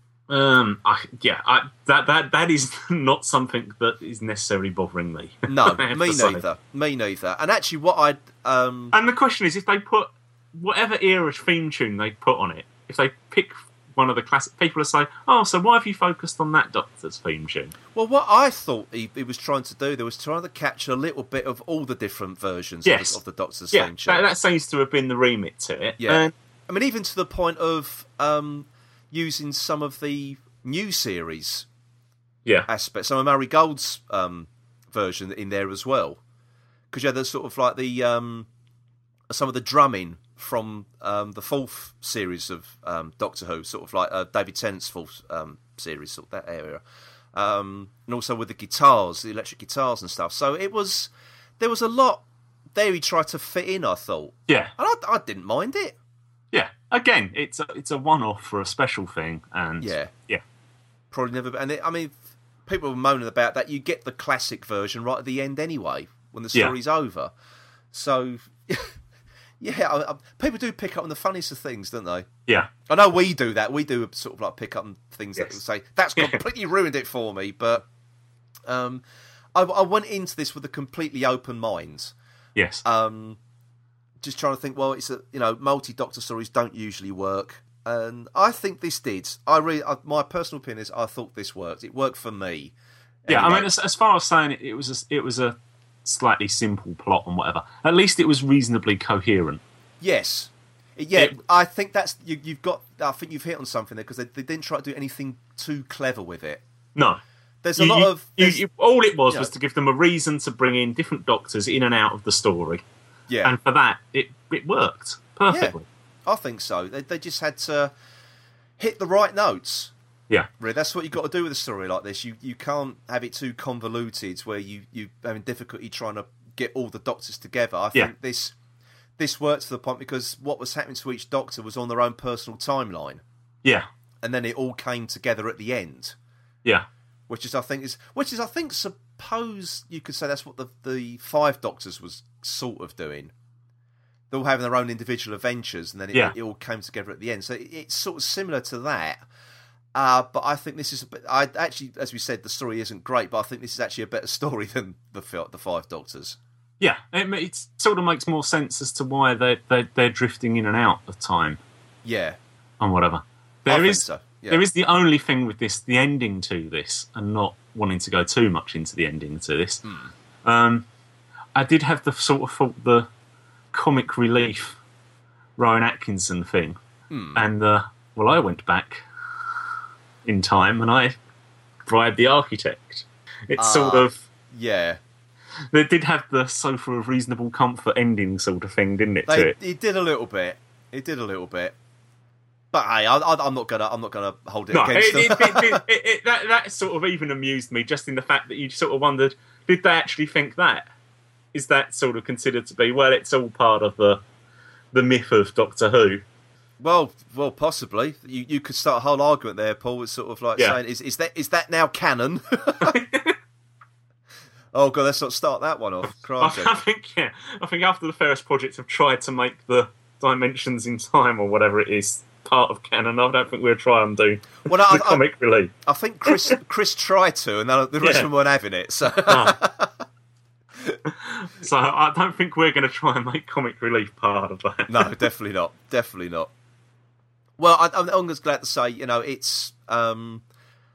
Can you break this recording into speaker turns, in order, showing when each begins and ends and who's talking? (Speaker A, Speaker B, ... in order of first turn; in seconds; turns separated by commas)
Speaker A: 0.3-6.4, Speaker B: 5.5-8.9, Speaker A: 8.9-17.8, Speaker B: 17.9-24.2, Speaker A: 22.9-23.2, Speaker A: 23.7-26.3, Speaker B: 26.0-31.7, Speaker B: 32.7-36.2, Speaker B: 36.9-38.5, Speaker B: 39.3-46.8, Speaker B: 47.3-52.2, Speaker B: 52.7-56.0, Speaker A: 56.5-60.4, Speaker B: 59.8-60.1, Speaker B: 61.1-67.3, Speaker B: 67.9-68.9, Speaker B: 69.6-72.3, Speaker B: 72.9-77.9, Speaker B: 78.7-79.0, Speaker B: 79.5-82.1, Speaker A: 82.6-82.8, Speaker B: 82.8-83.4, Speaker B: 84.2-92.7, Speaker B: 93.2-93.7, Speaker A: 93.3-99.6, Speaker B: 100.0-106.6, Speaker A: 107.0-107.2, Speaker B: 107.6-108.6, Speaker A: 107.8-112.8, Speaker B: 113.3-113.5, Speaker A: 113.4-115.9, Speaker B: 115.5-117.9, Speaker B: 118.8-119.9, Speaker B: 120.6-128.5, Speaker B: 129.2-133.2, Speaker B: 134.2-136.2, Speaker B: 137.3-143.3, Speaker B: 144.3-149.2, Speaker B: 149.9-156.4, Speaker A: 156.8-161.6, Speaker B: 162.0-162.4, Speaker A: 162.8-169.8, Speaker B: 163.7-164.6, Speaker B: 169.8-170.1, Speaker A: 170.4-170.9, Speaker A: 171.6-173.1, Speaker A: 173.7-174.8, Speaker A: 175.6-176.8, Speaker B: 177.1-177.4, Speaker A: 177.3-179.0, Speaker A: 180.2-181.2, Speaker A: 181.9-184.2, Speaker B: 183.6-185.0, Speaker A: 185.7-189.6, Speaker B: 189.3-191.8, Speaker B: 192.7-195.8, Speaker A: 194.7-200.9, Speaker A: 201.5-204.2, Speaker A: 204.9-206.2, Speaker B: 206.8-213.0, Speaker A: 212.8-213.4, Speaker B: 214.7-216.7, Speaker A: 216.4-225.7, Speaker B: 224.7-225.2, Speaker B: 225.8-229.9, Speaker A: 226.3-226.5, Speaker A: 228.0-228.3, Speaker A: 229.2-229.7, Speaker A: 231.1-235.0, Speaker B: 234.9-236.5, Speaker B: 237.6-240.4